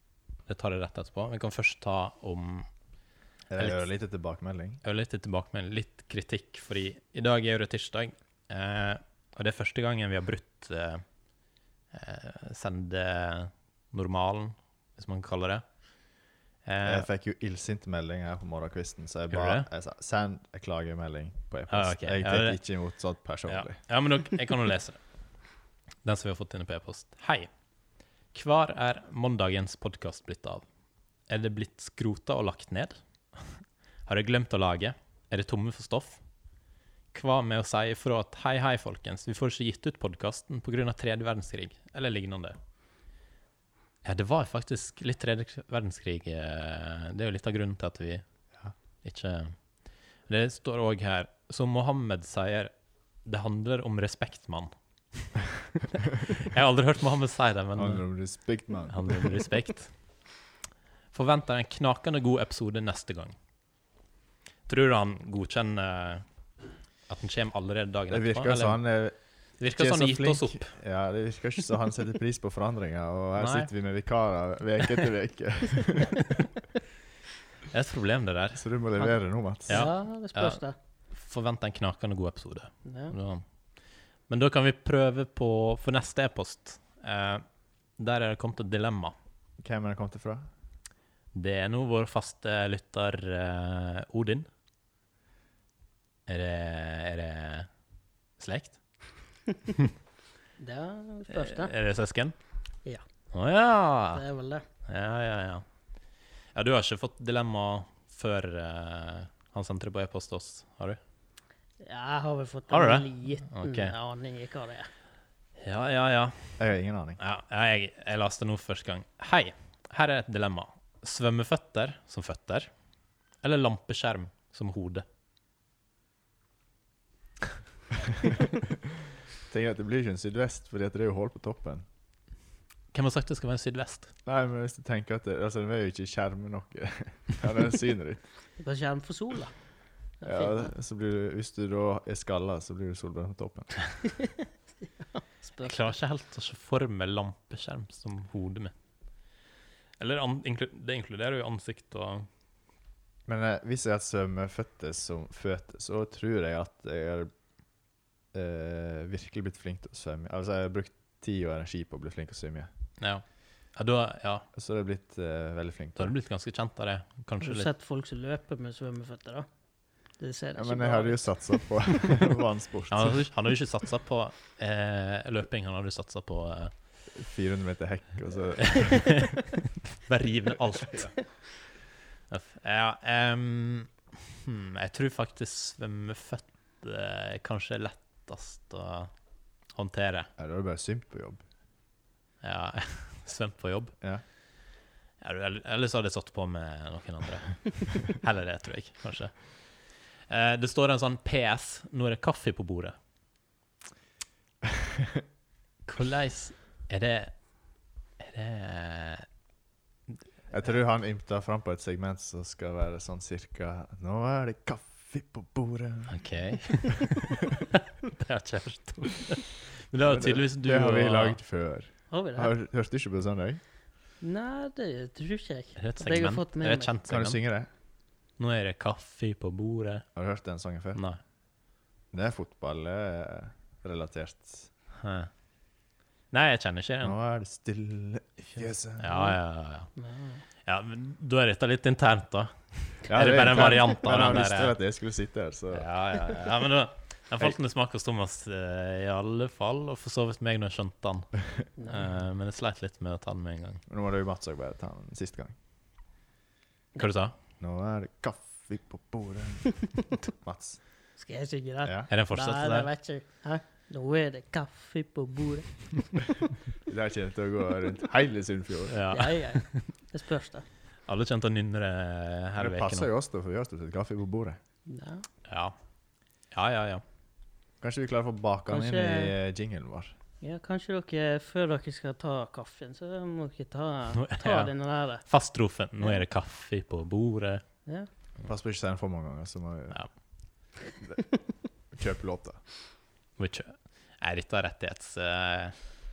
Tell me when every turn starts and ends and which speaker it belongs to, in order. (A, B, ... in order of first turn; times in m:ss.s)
0:00.5-0:02.7 A
0:03.5-0:04.8 B
0:03.6-0:03.8 A
0:04.8-0:11.0 A
0:11.9-0:15.6 A
0:16.6-0:17.1 A
0:16.8-0:23.8 B
0:19.3-0:19.7 A
0:21.7-0:22.6 A
0:23.5-0:25.0 A
0:26.0-0:27.5 A
0:28.3-0:30.6 A
0:31.3-0:33.6 A
0:34.1-0:36.2 A
0:37.1-0:42.6 A
0:44.0-0:48.2 A
0:49.0-0:49.6 A
0:50.3-0:52.7 A
0:53.2-0:55.3 A
0:55.9-0:58.0 A
0:57.8-0:59.4 B
0:58.9-0:59.9 A
1:01.1-1:03.4 A
1:04.7-1:06.2 A
1:07.1-1:08.8 A
1:08.1-1:16.4 B
1:09.6-1:10.7 A
1:13.4-1:13.7 A
1:16.2-1:16.5 A
1:17.7-1:18.6 A
1:18.6-1:19.8 B
1:19.7-1:20.8 C
1:19.7-1:20.6 A
1:21.1-1:23.4 A
1:22.8-1:23.1 C
1:24.3-1:27.4 A
1:28.0-1:29.2 A
1:29.6-1:30.5 B
1:31.3-1:34.5 A
1:36.3-1:37.7 A
1:38.4-1:38.8 A
1:40.6-1:41.7 C
1:41.3-1:42.4 A
1:43.3-1:44.2 A
1:44.1-1:44.6 C
1:44.8-1:45.6 A
1:46.6-1:51.0 A
1:51.8-1:54.9 C
1:52.7-1:53.9 A
1:55.6-1:56.6 A
1:56.6-1:57.2 B
1:57.2-2:02.7 A
2:03.4-2:05.0 A
2:09.5-2:11.9 B
2:12.9-2:14.1 A
2:14.3-2:18.2 B
2:18.6-2:19.5 C
2:20.2-2:20.7 C
2:20.2-2:23.8 B
2:24.1-2:25.9 C
2:25.6-2:28.7 A
2:30.0-2:32.3 A
2:33.3-2:37.3 B
2:38.3-2:42.7 B
2:43.0-2:44.5 A
2:44.5-2:46.1 B
2:46.0-2:47.7 A
2:47.4-2:49.5 C
2:50.2-2:52.2 C
2:50.6-2:53.2 B
2:52.9-2:56.7 A
2:57.1-2:59.2 B
2:58.7-3:01.2 A
3:02.3-3:09.1 A
3:09.7-3:10.3 A
3:10.4-3:11.4 B
3:12.4-3:13.9 A
3:15.2-3:23.0 A
3:24.6-3:25.2 B
3:25.9-3:27.4 A
3:28.2-3:29.3 A
3:30.5-3:36.2 B
3:36.1-3:41.4 A
3:40.0-3:43.6 B
3:42.1-3:42.5 C
3:44.2-3:47.0 C
3:45.8-3:47.4 A
3:47.1-3:47.7 B
3:48.4-3:50.1 A
3:50.2-3:51.0 B
3:51.0-3:51.2 A
3:52.1-3:54.7 B
3:55.0-3:55.3 A
3:56.3-3:57.2 A
3:57.0-3:59.2 B
3:59.0-3:59.9 A
4:00.0-4:00.4 C
4:00.6-4:04.8 A
4:03.1-4:05.9 B
4:05.7-4:11.3 A
4:11.8-4:12.1 C
4:11.9-4:13.8 A
4:13.9-4:15.6 B
4:17.0-4:17.4 A
4:17.6-4:20.8 B
4:21.2-4:26.4 C
4:22.1-4:22.9 A
4:26.9-4:29.0 B
4:28.9-4:29.9 A
4:29.1-4:30.7 C
4:31.1-4:33.1 A
4:32.6-4:34.6 B
4:34.9-4:35.3 C
4:35.5-4:35.8 A
4:36.5-4:37.0 A
4:37.8-4:40.1 B
4:38.7-4:39.4 C
4:40.4-4:45.2 C
4:44.1-4:44.7 A
4:45.2-4:47.6 A
4:48.4-4:50.0 B
4:51.9-4:52.6 B
4:53.4-4:56.0 A